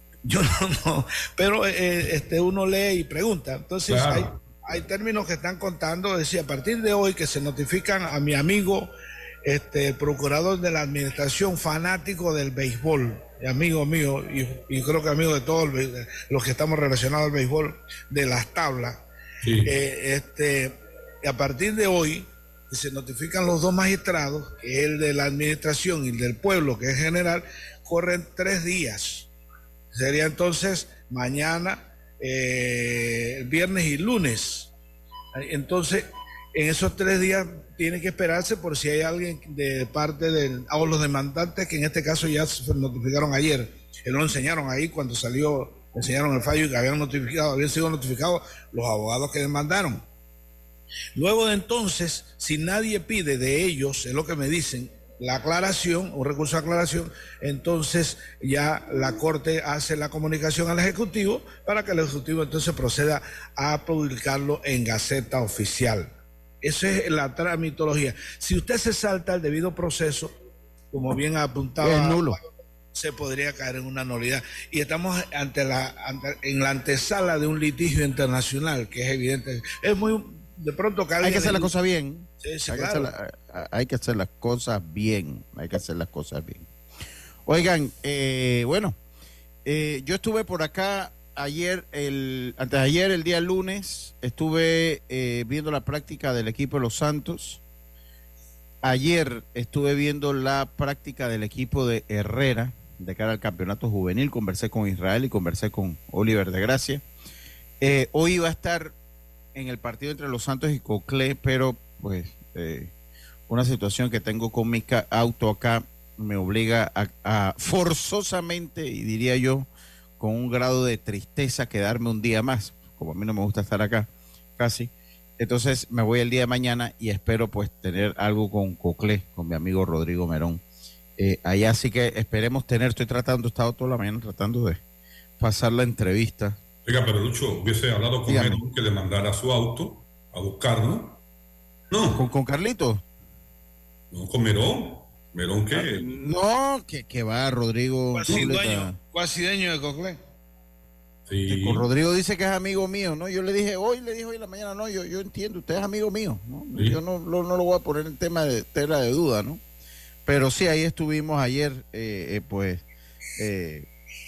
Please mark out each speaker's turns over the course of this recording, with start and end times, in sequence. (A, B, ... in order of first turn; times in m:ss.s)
0:00.2-0:08.9 A
0:03.9-0:04.6 B
0:09.4-0:19.0 A
0:19.4-0:19.7 B
0:19.6-0:29.3 A
0:29.9-0:34.7 A
0:35.4-0:50.0 A
0:51.2-1:06.1 A
1:06.6-1:10.4 A
1:10.9-1:21.7 A
1:11.8-1:12.4 C
1:21.2-1:26.7 C
1:22.4-1:23.1 A
1:27.5-1:29.0 C
1:29.6-1:37.6 C
1:38.8-1:47.0 C
1:47.8-1:49.0 C
1:49.6-1:52.9 C
1:53.5-1:59.7 C
2:00.2-2:10.6 C
2:11.2-2:14.8 C
2:15.4-2:16.6 C
2:16.8-2:21.2 B
2:18.3-2:18.6 C
2:21.9-2:22.2 B
2:22.2-2:23.0 C
2:24.1-2:26.1 B
2:25.7-2:29.0 C
2:28.2-2:30.2 A
2:31.3-2:31.8 B
2:31.5-2:39.6 C
2:36.8-2:37.0 B
2:40.3-2:42.8 C
2:43.4-2:43.9 C